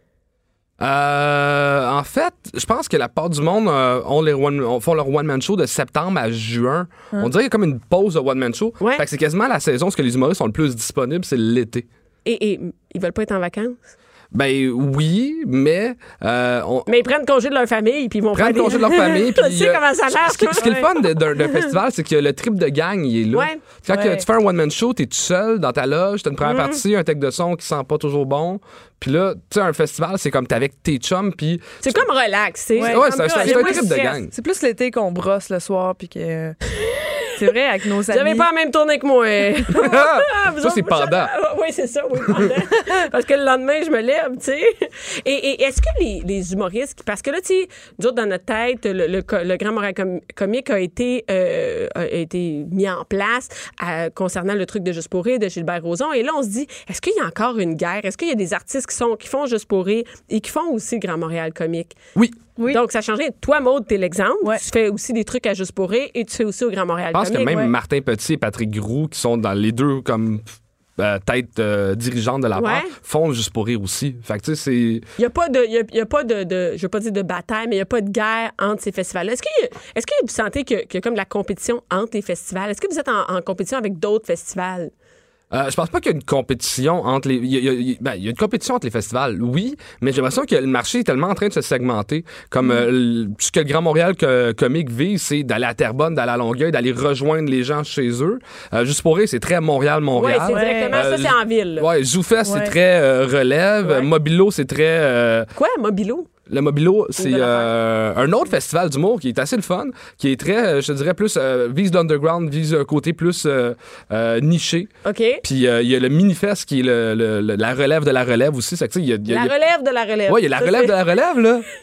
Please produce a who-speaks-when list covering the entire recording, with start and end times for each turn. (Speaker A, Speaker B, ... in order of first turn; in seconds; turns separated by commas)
Speaker A: 0.8-11.8, Speaker B: 12.2-13.8, Speaker A: 14.3-16.9, Speaker B: 16.9-21.6, Speaker A: 18.3-32.0, Speaker B: 23.3-23.6, Speaker C: 23.9-24.3, Speaker B: 26.4-26.8, Speaker B: 31.8-33.9, Speaker C: 32.8-36.6, Speaker A: 32.8-34.3, Speaker C: 37.4-38.5, Speaker B: 38.1-62.0, Speaker A: 39.7-41.3, Speaker B: 62.6-67.6, Speaker A: 67.1-75.0, Speaker C: 67.5-67.7, Speaker B: 72.5-72.9, Speaker B: 75.2-84.9, Speaker A: 85.5-105.5, Speaker B: 100.1-101.9, Speaker C: 100.5-101.0, Speaker C: 102.4-102.7, Speaker B: 105.5-106.3, Speaker A: 106.5-114.9, Speaker B: 107.2-107.7, Speaker B: 115.0-115.4, Speaker A: 115.4-119.5, Speaker B: 119.3-121.0, Speaker A: 120.3-121.6